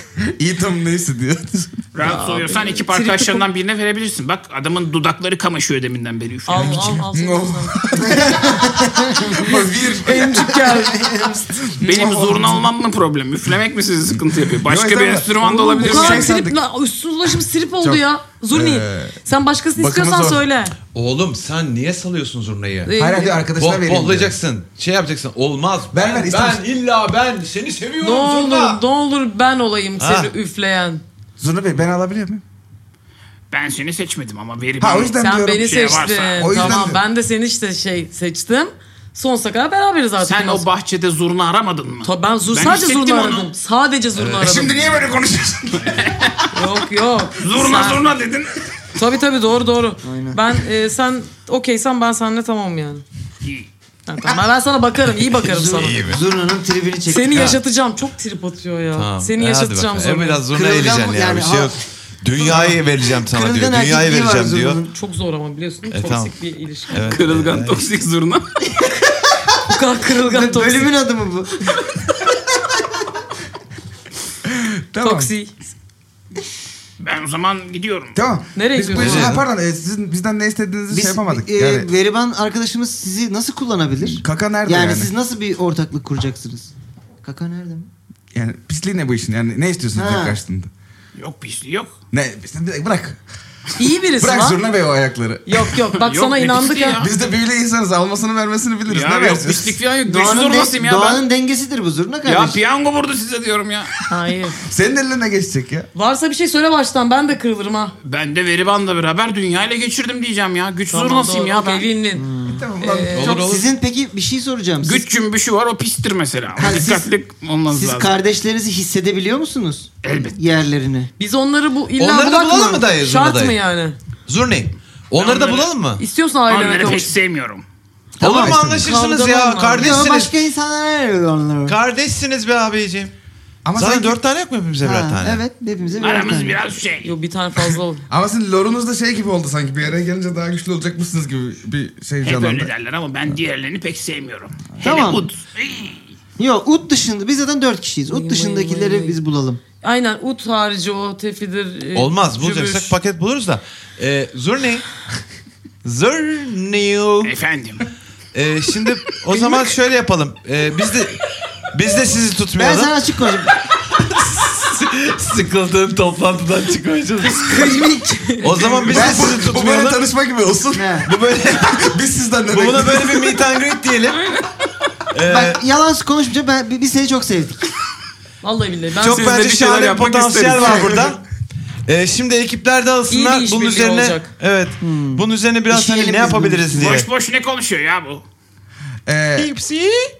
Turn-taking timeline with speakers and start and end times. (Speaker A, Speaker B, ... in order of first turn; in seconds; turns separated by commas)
Speaker A: 0.2-1.9, Speaker B: 1.9-7.0, Speaker C: 2.0-3.4, Speaker C: 6.5-7.8, Speaker A: 6.5-12.7, Speaker D: 8.0-9.6, Speaker C: 10.0-11.0, Speaker D: 10.6-11.5, Speaker B: 11.8-16.4, Speaker A: 14.6-16.6, Speaker C: 15.7-20.8, Speaker A: 17.8-19.2, Speaker A: 19.7-20.4, Speaker E: 20.9-22.9, Speaker C: 22.9-23.4, Speaker A: 23.0-24.4, Speaker E: 23.6-28.8, Speaker A: 25.9-26.6, Speaker C: 28.0-31.0, Speaker E: 30.0-30.3, Speaker A: 31.4-32.4, Speaker B: 33.5-36.7, Speaker A: 34.8-37.0, Speaker C: 35.2-40.6, Speaker B: 40.2-43.5, Speaker C: 42.0-44.9, Speaker E: 44.1-45.1, Speaker A: 44.3-46.3, Speaker B: 46.0-46.4, Speaker C: 46.5-48.1, Speaker B: 47.4-48.5, Speaker C: 48.9-53.0, Speaker D: 50.0-50.4, Speaker B: 53.4-53.7, Speaker C: 54.1-56.2, Speaker D: 55.4-57.6, Speaker E: 55.7-56.2, Speaker C: 57.1-60.5, Speaker E: 57.3-57.6, Speaker E: 58.9-64.8, Speaker D: 60.5-61.7, Speaker D: 62.4-64.9, Speaker C: 64.9-67.2, Speaker E: 65.9-66.3, Speaker E: 66.9-67.8, Speaker B: 67.0-68.5, Speaker C: 69.6-70.9, Speaker D: 70.2-71.9, Speaker A: 74.5-75.3, Speaker C: 75.0-75.5, Speaker B: 77.0-78.2, Speaker A: 78.1-81.9, Speaker C: 78.5-79.4, Speaker E: 78.9-79.4, Speaker D: 80.9-86.7, Speaker A: 84.0-85.1, Speaker D: 87.2-87.9, Speaker A: 88.3-90.7, Speaker D: 89.9-90.4, Speaker B: 91.2-91.9, Speaker A: 92.1-93.2, Speaker C: 93.8-94.6, Speaker A: 94.2-95.8, Speaker C: 95.5-97.0, Speaker B: 95.9-97.1, Speaker A: 97.0-99.8, Speaker B: 98.9-101.2, Speaker D: 100.0-102.6, Speaker B: 102.2-103.9, Speaker C: 104.1-104.6, Speaker A: 104.6-105.9, Speaker C: 105.9-107.9, Speaker B: 108.0-111.9, Speaker C: 110.9-113.4, Speaker D: 112.2-112.7, Speaker A: 112.5-113.5, Speaker E: 113.1-113.6, Speaker D: 113.3-115.0, Speaker B: 114.8-118.2, Speaker D: 116.6-117.1, Speaker D: 117.7-121.1, Speaker B: 120.0-120.4, Speaker C: 121.2-124.0, Speaker E: 122.0-123.6, Speaker E: 124.2-126.0, Speaker B: 125.2-125.7, Speaker C: 126.0-127.1, Speaker B: 126.5-127.6, Speaker A: 128.2-128.9, Speaker E: 128.2-130.3, Speaker C: 128.3-130.1, Speaker D: 129.8-131.8, Speaker E: 131.7-133.1, Speaker A: 133.6-134.2, Speaker E: 133.7-135.4, Speaker D: 134.8-136.6, Speaker B: 136.0-137.1, Speaker C: 136.8-138.0, Speaker A: 138.1-142.7, Speaker B: 142.2-146.0, Speaker A: 144.7-145.2, Speaker D: 144.8-145.3, Speaker D: 146.4-149.6, Speaker C: 148.1-149.2, Speaker C: 149.8-152.9, Speaker E: 151.9-154.9, Speaker E: 155.8-157.3, Speaker B: 157.2-157.8, Speaker E: 158.3-162.9, Speaker D: 162.6-163.5, Speaker E: 164.1-167.7, Speaker C: 167.2-168.9, Speaker D: 167.6-168.0, Speaker E: 168.4-170.0, Speaker D: 168.6-169.3, Speaker A: 168.9-173.3, Speaker D: 170.7-171.1, Speaker E: 171.1-171.9, Speaker E: 172.5-174.2, Speaker B: 174.2-174.5, Speaker E: 175.1-175.6, Speaker D: 175.2-177.6, Speaker C: 178.4-179.4, Speaker E: 179.0-181.2, Speaker B: 179.0-181.1, Speaker D: 180.5-181.0, Speaker E: 181.8-187.1, Speaker C: 183.1-184.3, Speaker D: 184.8-187.0, Speaker B: 186.7-188.2, Speaker A: 189.1-189.5, Speaker E: 189.4-190.1